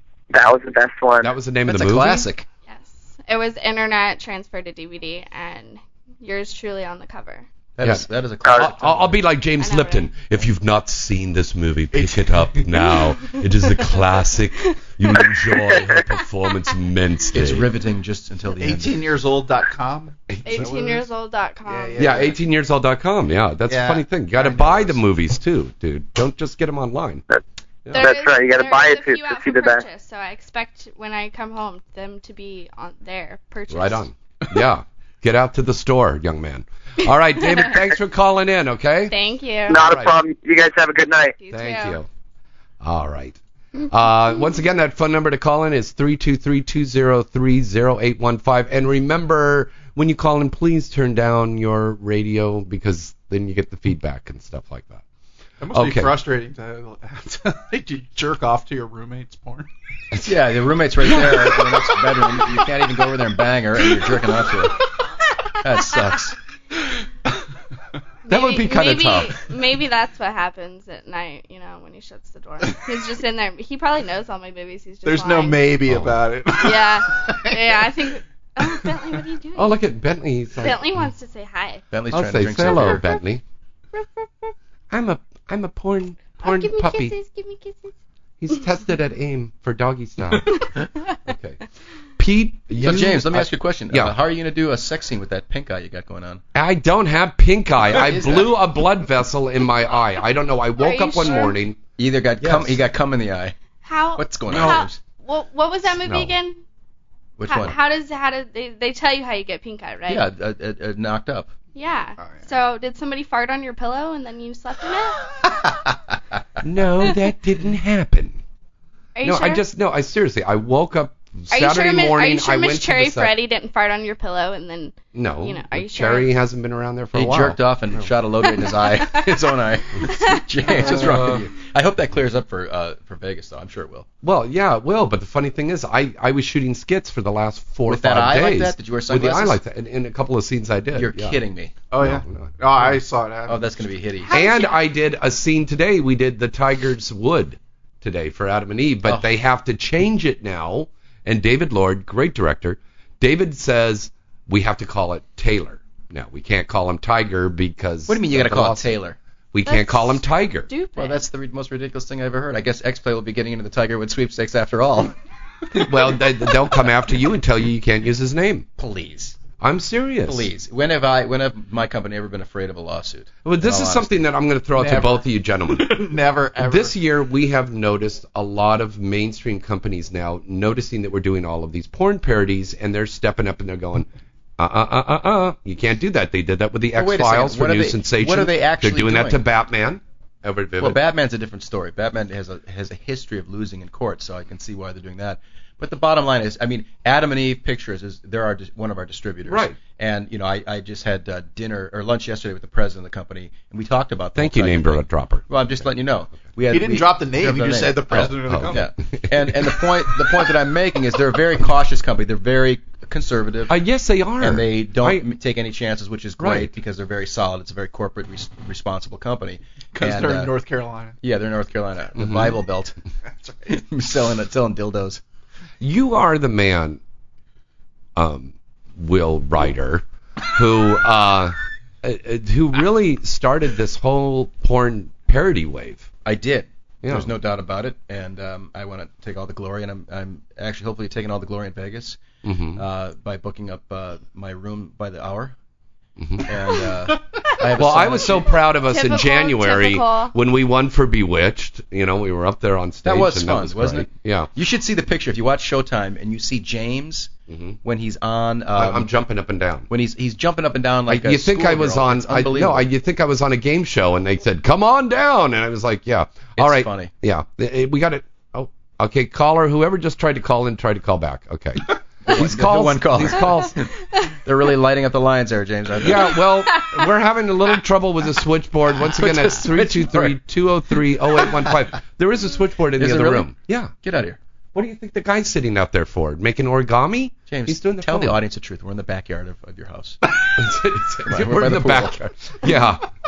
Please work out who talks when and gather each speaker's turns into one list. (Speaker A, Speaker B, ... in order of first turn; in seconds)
Speaker A: 0.3-1.3, 8.4-8.7, 28.0-29.8, 39.7-41.4
Speaker B: 1.2-2.3, 7.8-17.7, 20.3-20.6, 22.0-27.2, 27.9-28.1, 33.7-39.1, 39.7-40.1, 41.5-42.1, 42.8-55.0, 55.7-56.1, 61.0-61.6, 68.3-69.4, 75.9-76.2, 79.5-80.8, 82.1-83.4, 84.9-87.1, 88.4-90.6, 91.2-91.6, 92.2-94.2, 96.5-101.8, 102.4-102.8, 104.5-104.8, 106.0-106.3, 116.6-118.4, 119.2-123.3, 125.1-128.1, 130.7-131.5, 134.2-141.4, 142.0-142.5, 144.3-158.9, 159.5-160.7, 165.7-168.7, 169.6-170.5, 173.4-191.0, 199.5-199.8, 204.3-205.5, 208.2-208.9, 213.7-215.2, 216.4-216.8, 222.2-222.6, 225.8-227.0, 228.2-236.1, 237.0-237.3, 242.4-242.8, 246.2-246.5, 247.7-254.5, 257.5-257.8, 258.7-259.9, 261.1-273.8, 276.0-283.9, 284.7-288.4, 290.6-293.1
Speaker C: 1.7-2.5, 7.8-9.2, 17.3-19.1, 60.2-64.8, 65.6-66.3, 81.9-83.0, 92.8-96.4, 97.9-98.5, 102.0-103.5, 104.2-105.0, 107.4-107.8, 110.1-111.5, 127.1-134.1, 137.9-139.6, 140.9-141.8, 143.5-144.4, 158.1-159.2, 160.9-165.2, 168.8-169.4, 170.2-174.2, 186.9-189.4, 190.8-213.8, 214.4-220.5, 221.2-223.0, 223.7-225.2, 236.2-242.2, 242.7-245.5, 246.4-248.5, 253.0-257.3, 257.8-259.1, 259.9-262.8, 266.6-267.1, 272.2-276.4, 279.0-280.4, 281.4-281.7, 283.0-284.4, 287.5-290.2, 291.2-292.3
Speaker D: 2.7-7.4, 9.6-10.1, 20.4-22.1, 27.9-34.1, 39.1-39.8, 41.4-42.0, 68.3-75.8, 76.6-79.8, 80.6-81.8, 83.9-84.5, 86.4-87.9, 100.8-101.6, 103.8-106.6, 107.5-110.2, 111.7-115.2, 119.2-119.6, 121.5-126.3, 144.2-144.8, 159.7-161.2, 248.8-250.3
Speaker E: 11.9-12.6, 18.6-21.1, 21.6-22.4, 23.7-25.0, 55.6-59.7, 75.0-77.9, 112.2-112.5, 141.9-143.8, 175.7-176.9, 206.7-208.9, 219.9-221.2, 223.4-223.7